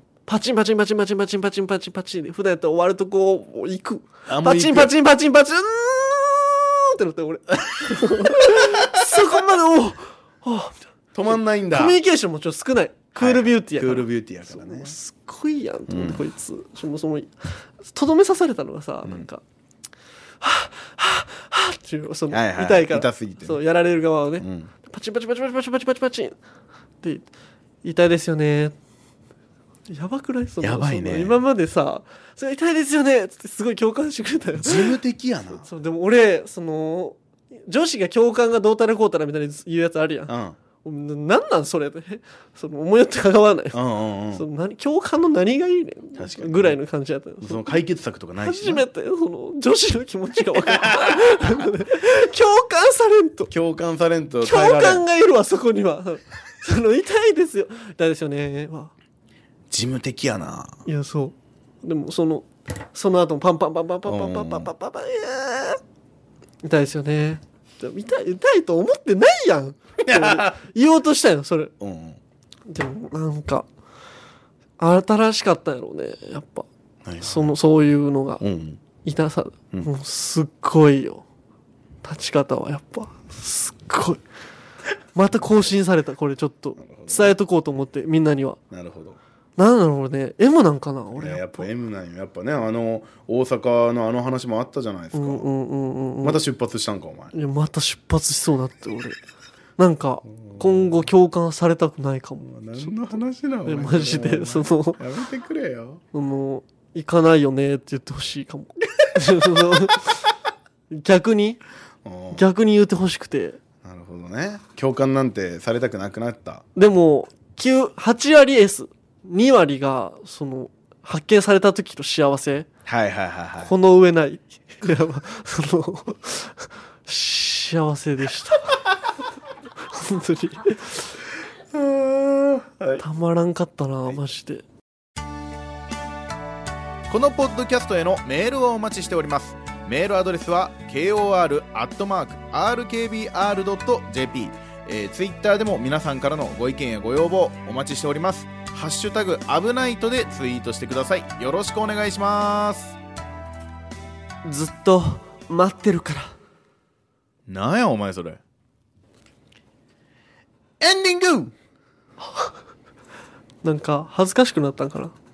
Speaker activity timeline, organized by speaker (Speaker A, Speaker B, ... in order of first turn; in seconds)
Speaker A: 0.3-10.8, 11.3-17.3, 17.8-19.4, 20.4-26.3, 27.8-28.7, 29.9-35.0, 35.6-40.3, 40.8-43.8, 44.3-47.7, 48.4-53.5, 54.4-58.9, 60.9-65.8, 66.6-71.7, 72.7-73.7, 74.8-76.7, 77.2-78.4, 79.0-81.2, 82.0-84.2, 85.1-88.6, 89.6-91.7, 95.1-96.4, 97.3-99.2, 99.8-102.9, 103.7-105.0, 106.1-110.2, 110.9-111.6, 112.3-113.6, 116.8-122.7, 123.6-128.8, 129.9-131.2, 133.0-134.6, 154.4-156.3, 162.2-162.5, 163.6-165.1
Speaker B: 4.3-4.9, 7.9-9.1, 11.1-11.9, 13.2-14.9, 15.9-16.2, 22.3-23.6, 24.4-24.7, 30.6-31.4, 34.6-35.7, 40.3-40.5, 43.7-44.4, 46.2-46.8, 47.4-48.9, 50.5-51.7, 53.5-55.0, 59.7-60.8, 64.1-64.7, 70.0-70.6, 71.8-72.2, 77.0-77.5, 78.4-78.8, 86.8-87.3, 88.7-89.2, 91.2-95.5, 96.2-97.3, 100.4-101.1, 102.4-106.0, 109.4-109.7, 112.0-112.5, 113.8-116.6, 122.8-123.7, 131.7-133.0, 137.1-152.9, 157.5-158.4, 160.8-161.5